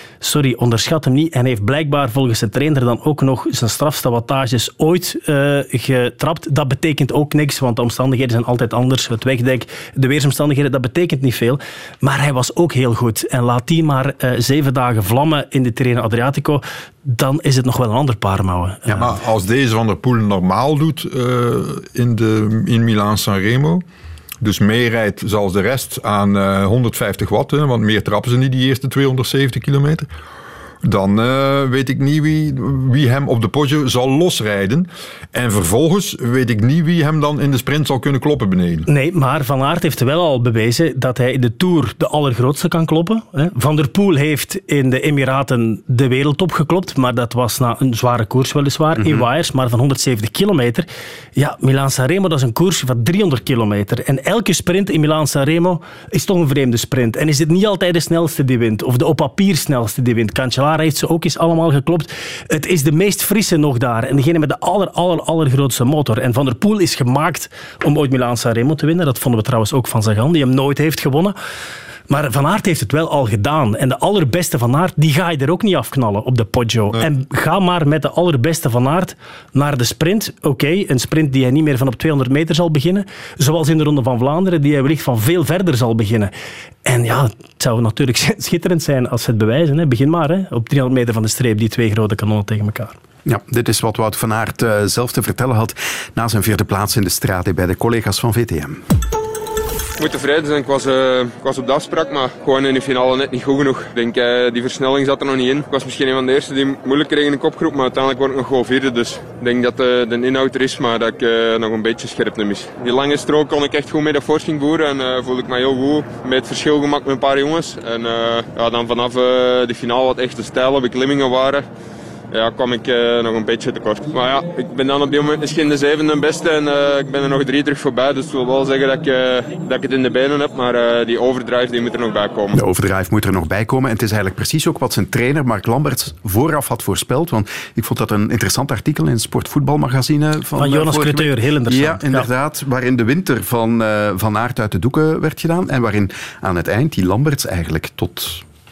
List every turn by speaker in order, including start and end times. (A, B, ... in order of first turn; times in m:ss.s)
0:00.2-0:19.1 A
0:18.9-0:23.8 B
0:24.4-0:30.1 B
0:30.8-0:38.9 B
0:38.9-1:11.4 A
1:12.1-1:26.3 A
1:26.8-1:32.9 A
1:33.2-1:38.8 C
1:40.0-2:01.6 D
2:02.3-2:12.5 D
2:12.5-2:28.4 C
2:20.6-2:22.3 A